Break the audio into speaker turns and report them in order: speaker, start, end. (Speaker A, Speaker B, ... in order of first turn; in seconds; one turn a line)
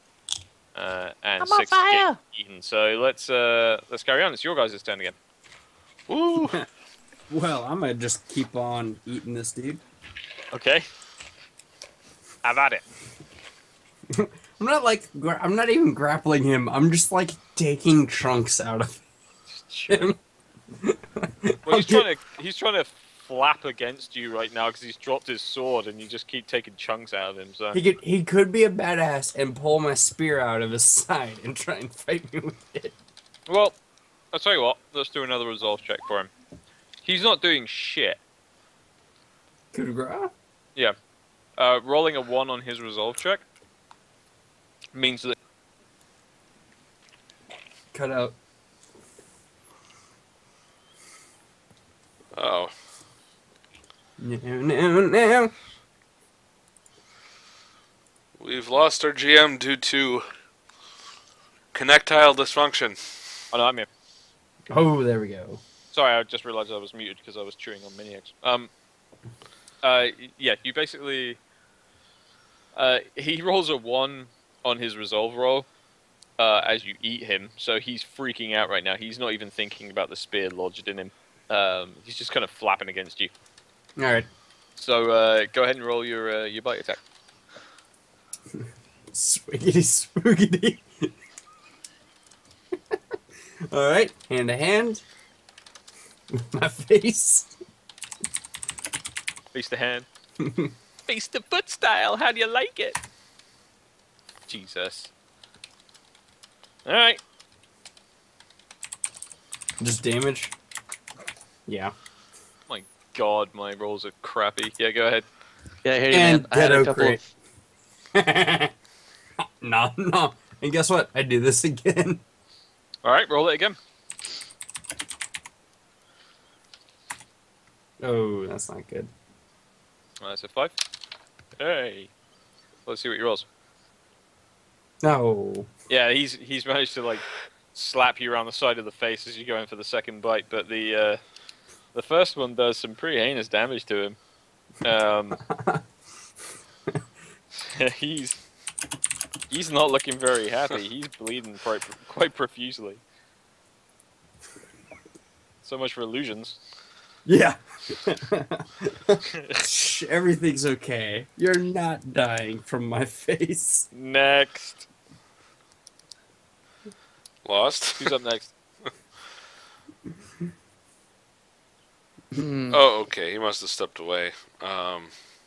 Speaker A: 0.7-5.2
Speaker B: 1.4-2.2
Speaker C: 6.1-6.6
Speaker D: 6.3-6.6
Speaker D: 7.3-9.8
Speaker A: 10.5-10.9
Speaker A: 12.4-12.8
Speaker D: 14.1-19.0
Speaker A: 19.5-20.1
Speaker D: 19.9-20.1
Speaker D: 20.8-22.0
Speaker A: 21.6-27.8
Speaker D: 27.7-32.9
Speaker A: 33.5-33.8
Speaker A: 34.3-36.3
Speaker A: 37.0-38.2
Speaker D: 39.7-40.3
Speaker A: 41.6-43.4
Speaker A: 44.9-45.4
Speaker D: 47.9-48.3
Speaker C: 52.3-52.7
Speaker D: 54.2-55.5
Speaker C: 58.4-60.3
Speaker C: 61.7-63.2
Speaker A: 63.5-63.9
Speaker D: 64.7-65.6
Speaker A: 65.9-68.7
Speaker A: 69.8-71.4
Speaker A: 72.7-75.7
Speaker A: 76.4-83.3
Speaker D: 84.0-84.3
Speaker A: 84.8-87.0
Speaker D: 88.6-91.1
Speaker D: 93.7-95.0
Speaker D: 96.3-97.5
Speaker A: 99.5-100.0
Speaker D: 100.4-100.7
Speaker A: 101.1-103.0
Speaker A: 104.5-105.1
Speaker A: 106.8-107.2
Speaker D: 109.8-110.5
Speaker D: 111.7-111.9
Speaker A: 112.7-115.2
Speaker B: 115.8-117.3
Speaker D: 116.1-117.2
Speaker D: 118.1-118.7
Speaker D: 119.6-122.2
Speaker A: 123.0-123.8
Speaker D: 128.0-129.1
Speaker A: 130.2-130.8
Speaker A: 131.6-132.1
Speaker A: 132.8-133.5
Speaker D: 135.0-135.7
Speaker A: 135.9-141.2
Speaker A: 141.9-144.2
Speaker A: 144.8-145.4
Speaker D: 145.5-145.8
Speaker A: 147.6-148.4
Speaker A: 149.5-153.0
Speaker A: 155.6-156.6
Speaker D: 157.2-163.9
Speaker A: 163.9-164.9
Speaker C: 167.4-168.1
Speaker A: 168.0-168.5
Speaker B: 172.3-172.8
Speaker C: 172.7-175.1